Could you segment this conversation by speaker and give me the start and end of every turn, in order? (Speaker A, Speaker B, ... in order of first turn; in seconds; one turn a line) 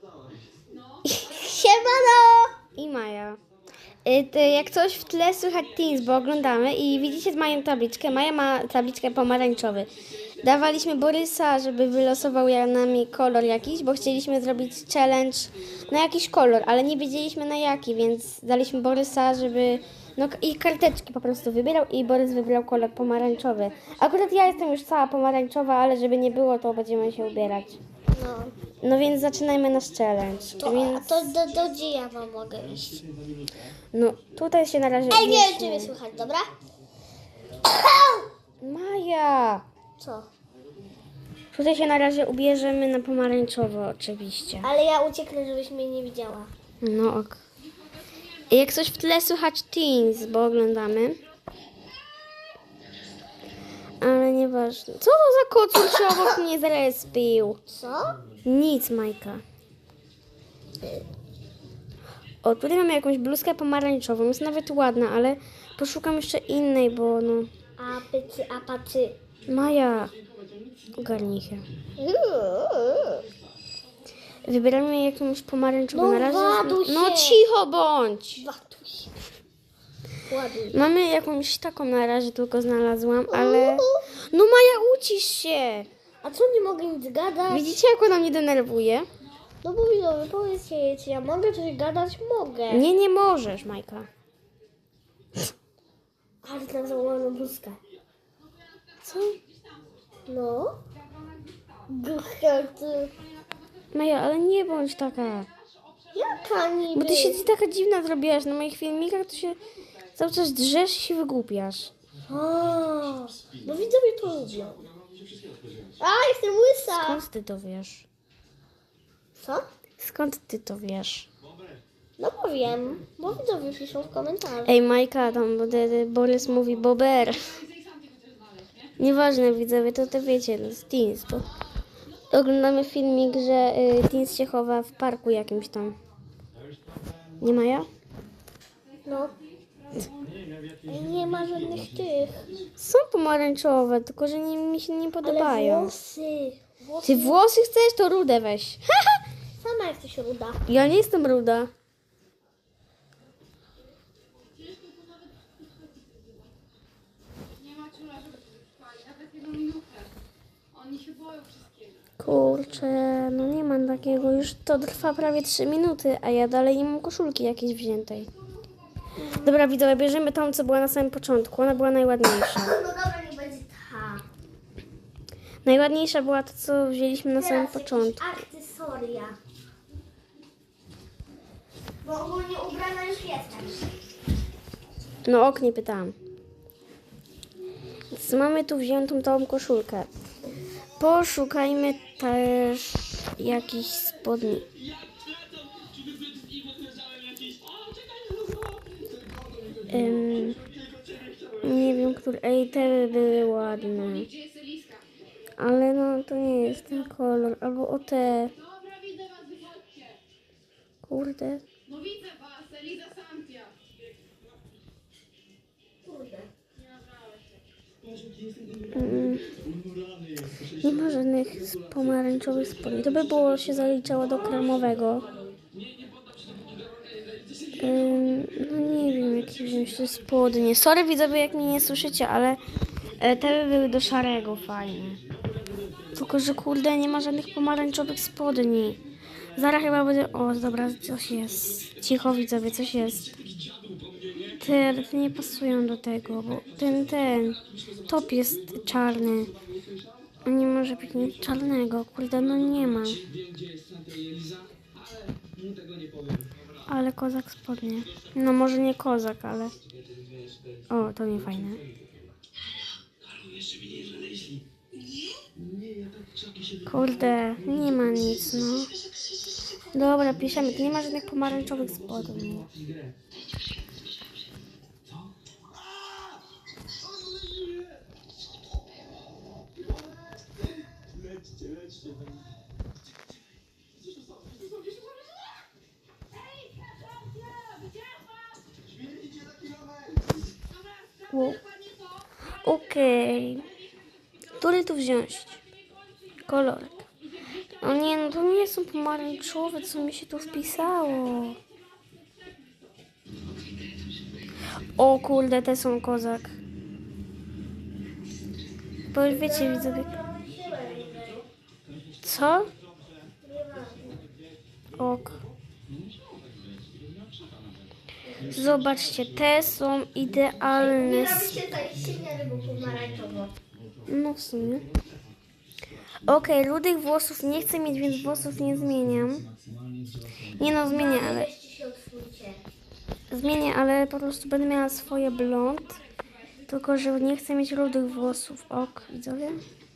Speaker A: 0.7-1.7
Speaker B: 1.0-1.4
Speaker C: 1.2-2.5
Speaker B: 2.7-3.4
Speaker B: 4.0-27.8
Speaker A: 23.6-24.4
Speaker C: 28.1-28.5
Speaker B: 28.8-31.3
Speaker C: 30.6-33.0
Speaker B: 33.9-36.0
Speaker C: 35.1-36.5
Speaker C: 37.6-38.3
Speaker B: 38.6-39.6
Speaker C: 40.0-40.3
Speaker B: 41.5-44.7
Speaker C: 44.6-46.5
Speaker B: 46.8-47.4
Speaker A: 47.7-48.5
Speaker B: 48.5-51.2
Speaker B: 54.0-57.6
Speaker C: 57.7-58.2
Speaker B: 58.4-59.4
Speaker B: 62.4-67.5
Speaker C: 67.8-69.2
Speaker B: 69.5-70.1
Speaker B: 70.9-71.7
Speaker C: 72.0-73.2
Speaker B: 74.4-78.4
Speaker C: 75.9-77.4
Speaker C: 78.4-79.1
Speaker C: 80.3-80.8
Speaker B: 80.7-85.9
Speaker C: 83.3-84.0
Speaker C: 86.2-87.8
Speaker B: 87.5-89.1
Speaker C: 89.6-92.9
Speaker B: 92.7-94.1
Speaker C: 96.4-97.8
Speaker A: 98.4-99.9
Speaker B: 99.0-99.4
Speaker C: 100.3-100.8
Speaker A: 100.9-101.9
Speaker C: 101.9-103.1
Speaker A: 103.4-103.8
Speaker B: 103.9-105.5
Speaker A: 105.7-106.5
Speaker C: 106.1-107.4
Speaker B: 106.9-109.6
Speaker B: 110.2-111.9
Speaker C: 112.3-114.8
Speaker C: 116.0-117.2
Speaker B: 116.9-118.1
Speaker C: 119.4-119.7
Speaker B: 120.0-121.3
Speaker C: 122.2-124.8
Speaker B: 124.7-127.6
Speaker A: 127.6-128.9
Speaker B: 129.0-131.5
Speaker B: 132.3-135.9
Speaker B: 137.4-137.9
Speaker A: 138.9-140.3
Speaker C: 139.1-139.3
Speaker C: 140.8-142.4
Speaker B: 142.8-145.9
Speaker C: 145.2-147.4
Speaker B: 147.0-149.2
Speaker C: 149.6-150.6
Speaker B: 150.7-151.7
Speaker A: 154.5-156.5
Speaker A: 157.6-160.1
Speaker A: 160.7-162.1
Speaker B: 162.2-168.3
Speaker C: 169.2-169.5
Speaker B: 169.2-172.8
Speaker C: 172.3-174.2
Speaker B: 175.6-178.4
Speaker C: 177.3-179.4
Speaker C: 182.0-183.9
Speaker B: 185.2-186.2
Speaker B: 188.1-190.1
Speaker B: 191.0-194.7
Speaker B: 199.9-200.6
Speaker B: 201.6-204.3
Speaker A: 203.5-205.0
Speaker B: 205.6-208.5
Speaker A: 208.5-210.2
Speaker B: 211.0-211.7
Speaker A: 211.8-213.8
Speaker C: 216.0-216.5
Speaker A: 216.8-217.5
Speaker B: 218.9-219.4
Speaker B: 220.8-225.3
Speaker C: 224.2-225.5
Speaker B: 227.8-232.6
Speaker B: 233.2-235.2
Speaker B: 236.2-239.0
Speaker B: 239.6-243.3
Speaker B: 244.5-249.5
Speaker B: 250.4-253.2
Speaker B: 256.9-259.8
Speaker B: 260.9-261.8
Speaker B: 266.8-268.9
Speaker B: 269.9-272.7
Speaker A: 286.3-288.4
Speaker A: 290.7-292.2
Speaker B: 291.3-291.6
Speaker B: 292.6-293.7
Speaker B: 294.6-295.6
Speaker B: 296.4-297.1
Speaker B: 297.8-301.6
Speaker A: 301.3-302.6
Speaker B: 304.9-306.6
Speaker B: 309.1-310.1
Speaker C: 309.2-311.4
Speaker B: 312.2-312.7
Speaker C: 313.4-314.2
Speaker B: 315.0-315.4
Speaker C: 318.2-318.5
Speaker B: 318.4-321.6
Speaker C: 320.8-323.5
Speaker B: 324.1-324.9
Speaker B: 326.2-329.5
Speaker B: 330.6-331.5
Speaker C: 330.8-332.6
Speaker B: 333.3-336.0
Speaker B: 336.7-339.6